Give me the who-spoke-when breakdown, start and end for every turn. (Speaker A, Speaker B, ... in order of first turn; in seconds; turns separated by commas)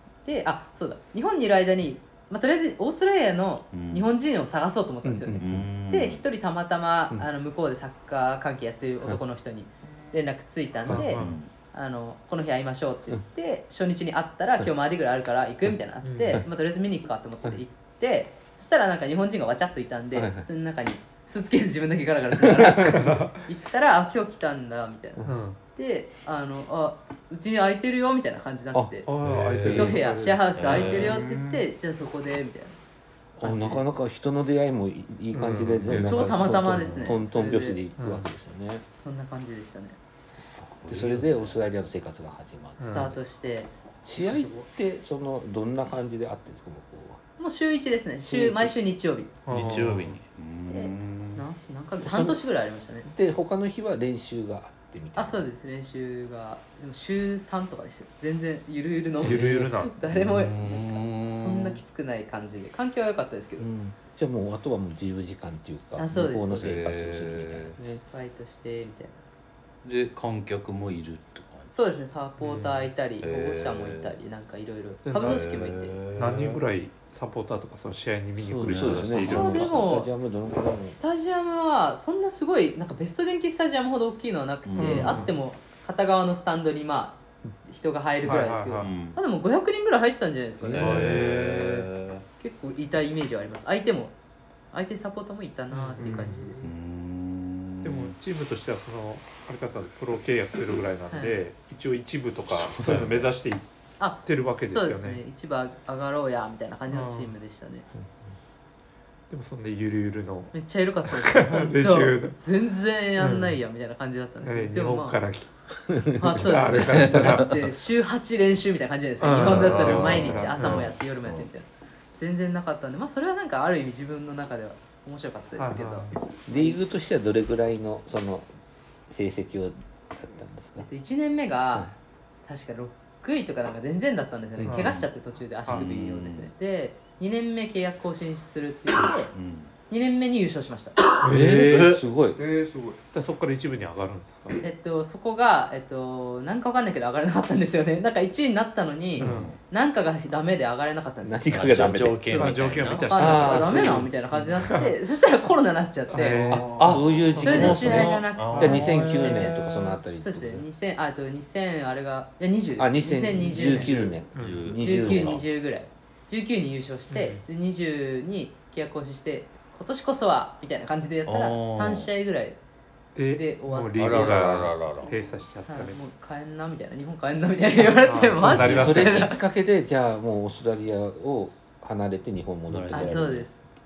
Speaker A: 0.2-29.1, Speaker B: 3.7-4.0, Speaker C: 5.0-5.7, Speaker B: 5.3-6.2, Speaker D: 10.9-11.4, Speaker B: 11.2-11.5, Speaker D: 16.0-16.4, Speaker C: 20.1-20.4, Speaker C: 22.4-23.2, Speaker D: 22.9-23.4, Speaker D: 25.2-25.6, Speaker C: 28.7-30.0, Speaker D: 29.1-31.0, Speaker B: 29.3-29.9, Speaker A: 29.6-32.8, Speaker B: 30.6-31.2, Speaker E: 30.8-31.7, Speaker A: 33.4-33.8, Speaker C: 33.4-38.9, Speaker D: 35.3-36.3, Speaker A: 35.9-37.8, Speaker D: 38.0-38.3, Speaker A: 39.0-40.0, Speaker B: 40.3-41.6, Speaker C: 40.9-43.1, Speaker D: 42.8-43.1, Speaker A: 42.9-43.7, Speaker C: 44.0-47.2, Speaker E: 44.2-44.6, Speaker A: 47.4-49.3, Speaker C: 48.2-48.8, Speaker D: 49.5-50.1, Speaker B: 49.5-51.4, Speaker A: 50.7-53.1, Speaker C: 52.0-52.4, Speaker C: 53.0-55.5, Speaker A: 55.2-63.7, Speaker D: 59.2-59.9, Speaker C: 59.2-59.7, Speaker B: 60.1-61.8, Speaker C: 63.6-68.0, Speaker A: 66.0-66.7, Speaker B: 66.6-67.8, Speaker A: 68.1-69.2, Speaker B: 69.8-71.7, Speaker A: 71.7-76.0, Speaker D: 72.4-72.9, Speaker B: 73.2-74.1, Speaker D: 75.0-75.4, Speaker B: 75.2-76.6, Speaker D: 76.2-79.8, Speaker C: 78.4-81.0, Speaker B: 78.7-79.7, Speaker A: 79.3-91.4, Speaker B: 84.7-85.3, Speaker D: 84.8-85.3, Speaker D: 88.2-88.9, Speaker B: 88.8-89.2, Speaker B: 90.6-92.2, Speaker D: 90.8-91.9, Speaker A: 92.4-94.1, Speaker A: 94.7-96.5, Speaker D: 95.7-96.4, Speaker E: 96.1-96.6, Speaker B: 96.6-98.1, Speaker D: 97.8-103.7, Speaker A: 101.1-101.4, Speaker B: 102.5-103.3, Speaker A: 104.0-107.9, Speaker D: 104.2-105.2, Speaker D: 106.9-107.3, Speaker D: 109.3-110.5, Speaker A: 110.5-115.2, Speaker D: 111.1-112.4, Speaker D: 113.2-113.6, Speaker D: 114.4-115.5, Speaker C: 115.9-116.4, Speaker A: 116.2-126.8, Speaker D: 116.3-117.6, Speaker B: 117.0-117.5, Speaker D: 119.2-120.9, Speaker B: 119.4-121.4, Speaker D: 125.6-126.2, Speaker C: 126.5-128.5, Speaker C: 129.1-130.9, Speaker A: 130.8-131.9, Speaker A: 132.5-139.3, Speaker D: 134.7-135.0, Speaker B: 134.7-135.1, Speaker B: 135.7-136.5, Speaker B: 139.3-139.7, Speaker A: 139.9-141.0, Speaker D: 141.2-142.0, Speaker C: 141.3-142.4, Speaker B: 141.3-142.0, Speaker E: 142.3-143.0, Speaker D: 143.1-144.6, Speaker A: 144.6-156.7, Speaker B: 149.2-149.6, Speaker D: 149.2-149.6, Speaker C: 151.2-152.3, Speaker B: 151.5-153.4, Speaker D: 152.4-154.9, Speaker C: 153.2-154.1, Speaker D: 156.1-159.2, Speaker E: 156.3-157.2, Speaker C: 156.5-160.7, Speaker B: 156.8-159.5, Speaker A: 157.4-164.0, Speaker C: 162.8-165.4, Speaker D: 163.6-164.7, Speaker B: 164.4-165.4, Speaker A: 164.8-172.6, Speaker D: 167.1-167.4, Speaker B: 171.3-172.1, Speaker D: 173.2-176.0, Speaker A: 173.3-174.4, Speaker B: 174.0-175.1, Speaker A: 175.1-179.4, Speaker D: 178.0-179.3, Speaker C: 178.5-183.5, Speaker B: 182.7-183.2, Speaker A: 182.9-183.6